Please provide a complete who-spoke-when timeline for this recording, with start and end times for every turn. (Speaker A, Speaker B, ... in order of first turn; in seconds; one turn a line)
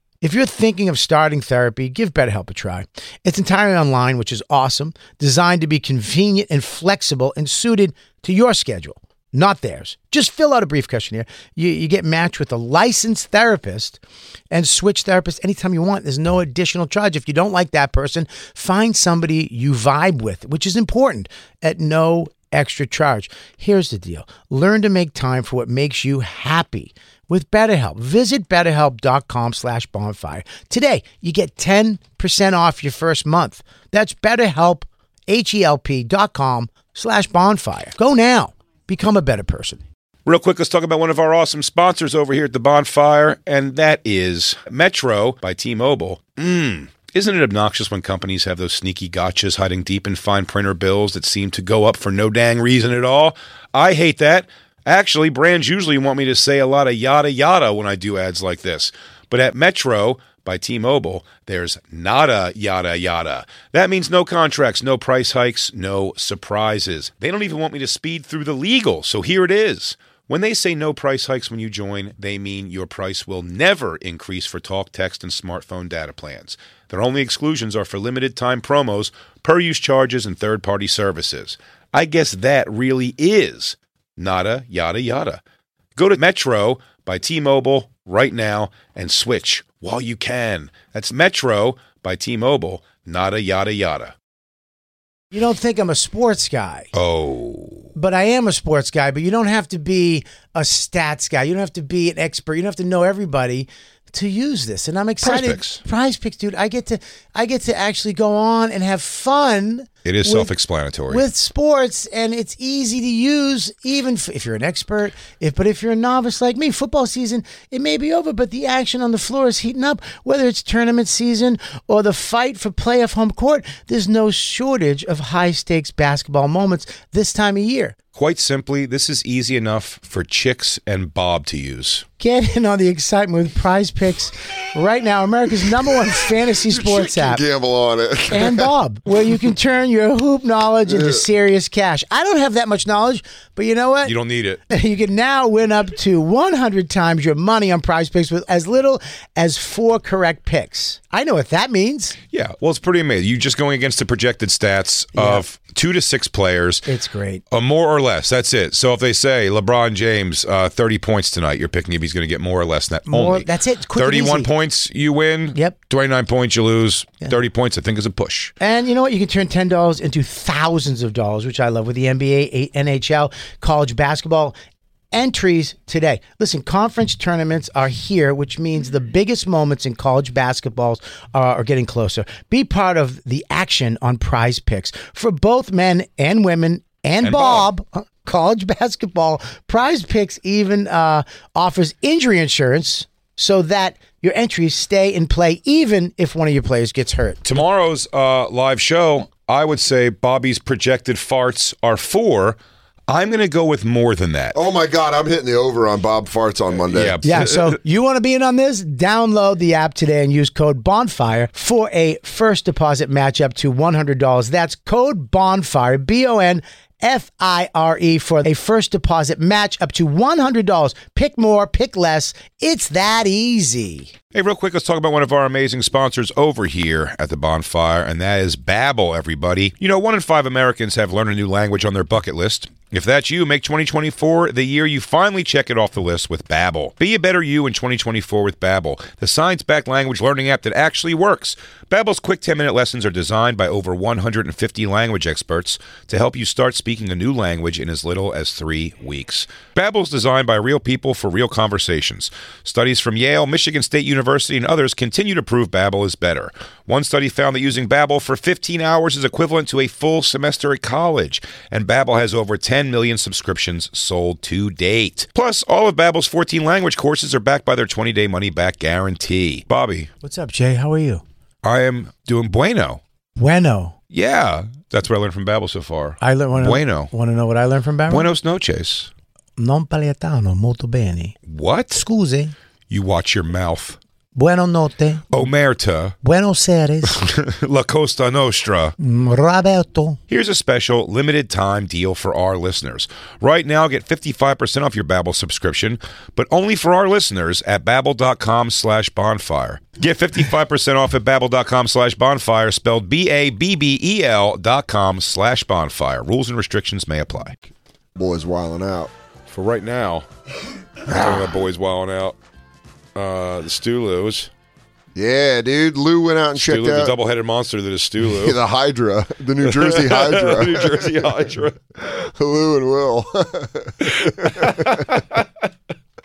Speaker A: 0.2-14.0
Speaker A: 14.5-39.8
Speaker B: 40.3-85.4
Speaker B: 86.0-94.1
Speaker A: 95.3-96.9
Speaker B: 96.9-97.9
Speaker A: 98.0-110.5
Speaker B: 105.2-105.8
Speaker B: 110.0-111.2
Speaker A: 111.1-128.0
Speaker B: 128.1-132.1
Speaker A: 132.2-137.4
Speaker C: 136.6-138.7
Speaker A: 138.3-144.1
Speaker C: 140.9-141.2
Speaker B: 144.1-144.6
Speaker A: 144.7-152.2
Speaker B: 152.3-156.9
Speaker A: 155.1-155.4
Speaker A: 156.9-157.4
Speaker B: 157.5-168.5
Speaker A: 163.1-164.5
Speaker A: 168.6-174.6
Speaker A: 175.1-197.4
Speaker B: 187.2-187.7
Speaker B: 197.4-204.6
Speaker C: 204.5-207.2
Speaker B: 206.9-207.8
Speaker A: 207.2-224.1
Speaker B: 224.3-270.1
Speaker A: 270.2-271.2
Speaker B: 271.6-273.0
Speaker A: 273.4-273.9
Speaker B: 274.1-277.1
Speaker A: 276.2-278.3
Speaker B: 278.1-279.1
Speaker A: 279.6-281.4
Speaker B: 281.4-282.1
Speaker A: 281.9-282.5
Speaker B: 282.9-284.0
Speaker A: 284.4-285.2
Speaker B: 285.3-286.1
Speaker A: 286.2-287.2
Speaker B: 287.1-288.9
Speaker A: 289.0-290.2
Speaker B: 290.3-307.6
Speaker C: 308.1-309.1
Speaker B: 309.5-310.3
Speaker C: 311.1-311.6
Speaker B: 311.1-312.4
Speaker B: 313.1-314.5
Speaker C: 315.1-317.1
Speaker B: 316.6-318.6
Speaker C: 318.2-321.5
Speaker B: 319.6-321.8
Speaker C: 322.0-325.1
Speaker B: 324.0-325.4